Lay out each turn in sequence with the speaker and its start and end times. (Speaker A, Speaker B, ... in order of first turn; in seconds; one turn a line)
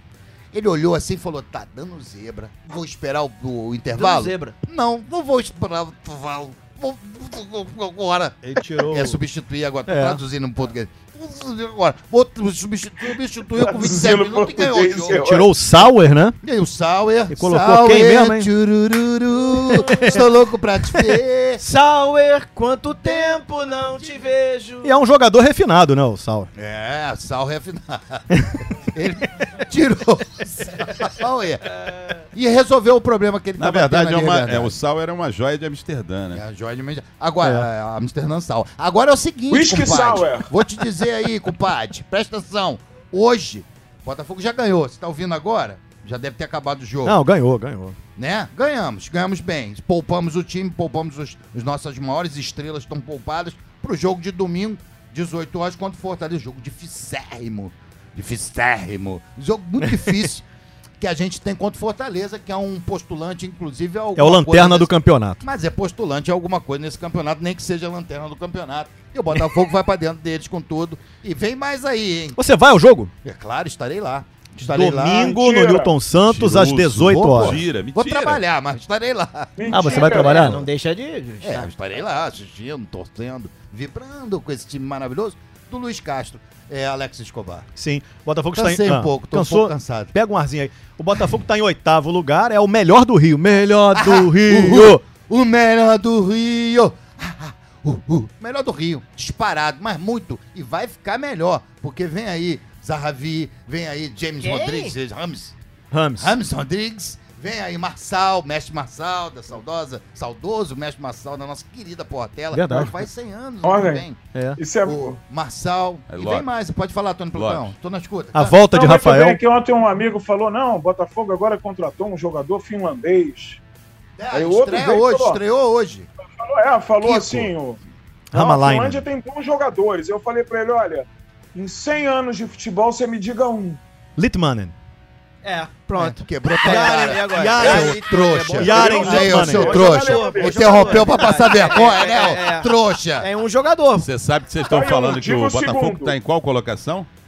Speaker A: 0.5-15.2
Speaker B: 3.9-4.5
Speaker C: 8.4-9.2
Speaker C: 9.9-10.2
Speaker D: 13.6-15.5
Speaker C: 15.1-16.4
Speaker A: 16.4-21.6
Speaker C: 17.3-18.5
Speaker C: 19.6-20.2
Speaker B: 21.6-24.9
Speaker C: 24.8-26.5
Speaker A: 26.6-28.3
Speaker C: 28.3-28.6
Speaker A: 28.8-34.8
Speaker E: 33.6-36.4
Speaker A: 36.3-47.2
Speaker D: 39.5-40.5
Speaker C: 47.0-48.0
Speaker A: 48.2-60.5
Speaker A: 61.0-72.4
Speaker C: 64.2-65.4
Speaker C: 72.4-73.1
Speaker A: 73.2-75.4
Speaker C: 74.6-77.6
Speaker D: 75.1-76.0
Speaker E: 76.2-78.4
Speaker A: 77.0-80.0
Speaker D: 79.6-80.5
Speaker C: 79.7-80.7
Speaker B: 79.9-81.7
Speaker A: 81.4-87.7
Speaker C: 87.8-95.0
Speaker A: 88.5-90.1
Speaker A: 93.9-105.5
Speaker B: 104.4-105.0
Speaker C: 105.9-106.4
Speaker A: 106.2-114.2
Speaker C: 112.5-113.0
Speaker D: 113.6-114.1
Speaker C: 114.3-114.6
Speaker D: 114.6-115.2
Speaker A: 114.8-118.6
Speaker E: 116.1-116.5
Speaker E: 117.3-117.7
Speaker C: 118.3-119.4
Speaker D: 118.6-123.6
Speaker A: 124.2-126.1
Speaker D: 124.3-125.4
Speaker D: 126.3-127.8
Speaker A: 127.0-127.5
Speaker C: 128.3-129.0
Speaker D: 128.3-133.8
Speaker C: 134.2-134.7
Speaker B: 135.4-144.1
Speaker A: 136.0-143.3
Speaker C: 136.6-139.9
Speaker D: 138.7-141.1
Speaker E: 144.0-147.1
Speaker D: 144.6-146.2